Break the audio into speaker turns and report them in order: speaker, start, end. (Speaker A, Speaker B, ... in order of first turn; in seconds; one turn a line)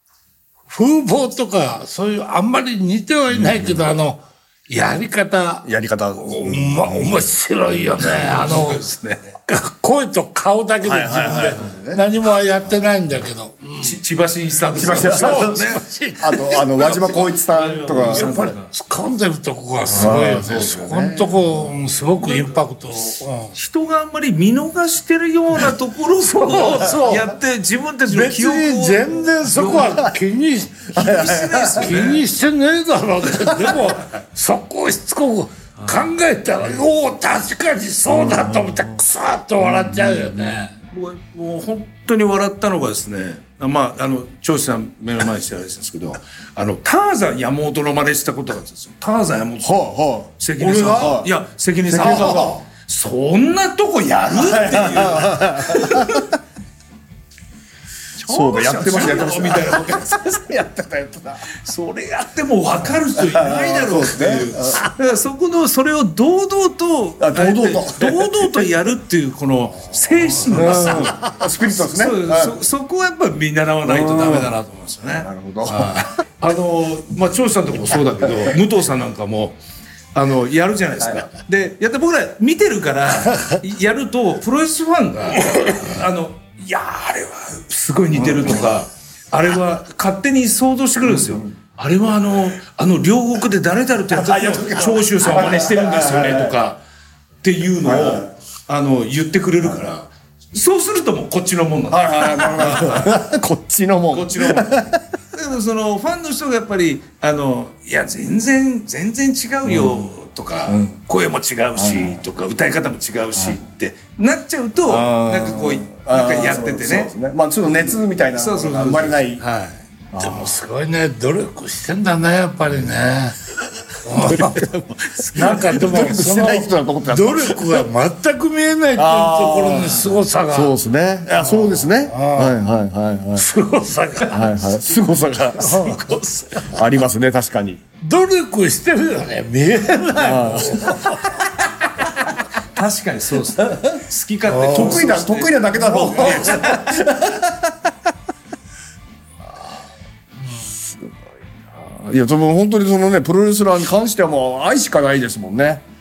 Speaker A: 0.7-8.8
Speaker B: 3.3-3.8
Speaker B: 5.7-7.2
Speaker C: 8.0-9.3
Speaker A: 9.5-14.0
Speaker B: 10.8-12.1
Speaker C: 13.8-15.8
Speaker B: 14.7-15.7
Speaker A: 14.9-17.0
Speaker B: 16.2-18.3
Speaker C: 16.7-18.7
Speaker A: 17.9-23.6
Speaker B: 19.9-21.5
Speaker C: 22.2-22.6
Speaker C: 23.6-30.1
Speaker A: 26.2-27.3
Speaker A: 28.1-30.9
Speaker B: 29.8-30.1
Speaker B: 30.9-32.1
Speaker C: 30.9-32.3
Speaker A: 31.8-40.7
Speaker C: 35.8-36.1
Speaker B: 38.1-39.0
Speaker B: 39.6-40.7
Speaker C: 40.9-49.8
Speaker B: 49.6-50.3
Speaker C: 50.4-56.3
Speaker A: 50.6-51.2
Speaker B: 51.0-51.3
Speaker B: 51.9-52.6
Speaker A: 52.0-52.6
Speaker B: 54.3-56.4
Speaker C: 58.2-60.4
Speaker B: 58.3-61.5
Speaker C: 61.6-79.6
Speaker B: 63.1-64.8
Speaker B: 67.2-68.7
Speaker A: 69.7-71.3
Speaker B: 70.5-72.6
Speaker B: 73.8-74.5
Speaker B: 75.2-76.0
Speaker C: 80.1-96.8
Speaker B: 91.1-91.5
Speaker B: 94.1-96.5
Speaker C: 97.4-103.2
Speaker B: 97.8-98.3
Speaker B: 99.6-99.9
Speaker B: 101.9-105.0
Speaker C: 104.1-117.1
Speaker B: 109.6-110.1
Speaker B: 110.7-111.0
Speaker B: 111.8-112.2
Speaker B: 113.3-113.6
Speaker B: 114.8-119.4
Speaker C: 118.3-119.8
Speaker B: 120.1-120.6
Speaker A: 120.2-123.4
Speaker A: 124.0-124.7
Speaker B: 124.2-127.9
Speaker C: 125.1-125.8
Speaker A: 125.3-130.7
Speaker B: 129.0-133.5
Speaker A: 131.4-132.6
Speaker A: 133.4-134.6
Speaker B: 134.3-136.0
Speaker A: 135.6-136.8
Speaker C: 135.9-136.5
Speaker B: 136.6-137.8
Speaker A: 138.0-142.1
Speaker B: 140.2-141.2
Speaker C: 142.8-147.1
Speaker A: 144.5-145.2
Speaker B: 144.7-147.8
Speaker A: 145.9-146.5
Speaker B: 150.8-151.2
Speaker B: 151.8-155.8